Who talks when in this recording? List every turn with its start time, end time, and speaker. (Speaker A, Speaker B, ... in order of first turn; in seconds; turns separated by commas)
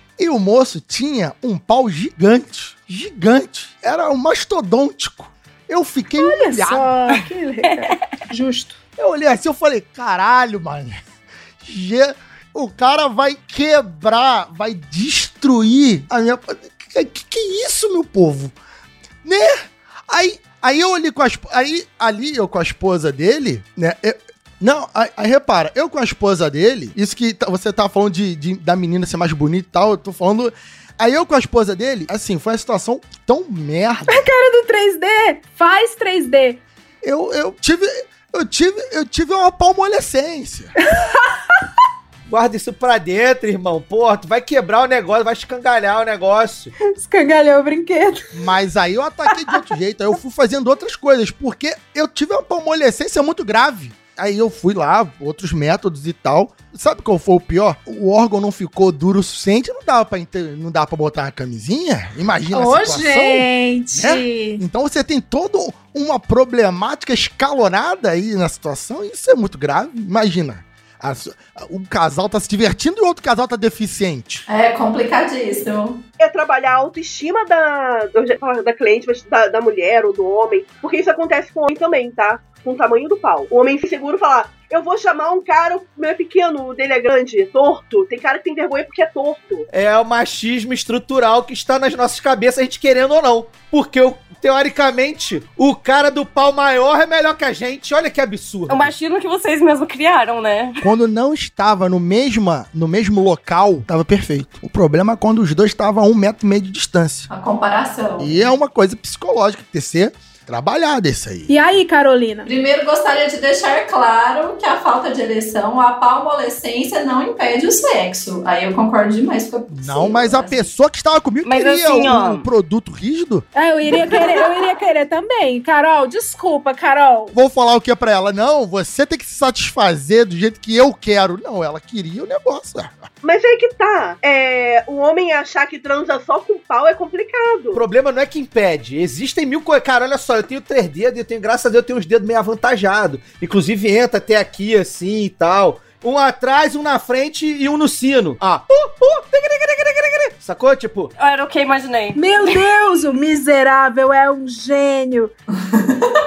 Speaker A: 0.2-6.9, Speaker B: 6.2-8.8, Speaker A: 9.0-11.0, Speaker A: 11.6-18.5, Speaker A: 19.2-34.2, Speaker B: 34.1-36.6, Speaker A: 37.0-40.7, Speaker B: 40.9-41.6, Speaker C: 42.3-46.7, Speaker B: 46.8-48.3, Speaker A: 48.3-74.4, Speaker B: 62.5-64.6, Speaker D: 74.5-76.0, Speaker E: 76.2-89.7, Speaker C: 89.7-98.9, Speaker F: 98.7-100.8, Speaker A: 100.8-107.3, Speaker D: 107.3-108.4, Speaker A: 108.2-111.5, Speaker B: 111.5-112.5, Speaker D: 112.5-120.7, Speaker A: 119.7-124.2, Speaker F: 121.4-122.5, Speaker B: 123.5-127.3, Speaker A: 127.3-133.1, Speaker E: 133.2-137.8, Speaker C: 137.7-151.1, Speaker F: 151.2-152.6, Speaker B: 152.1-155.3, Speaker D: 155.7-156.1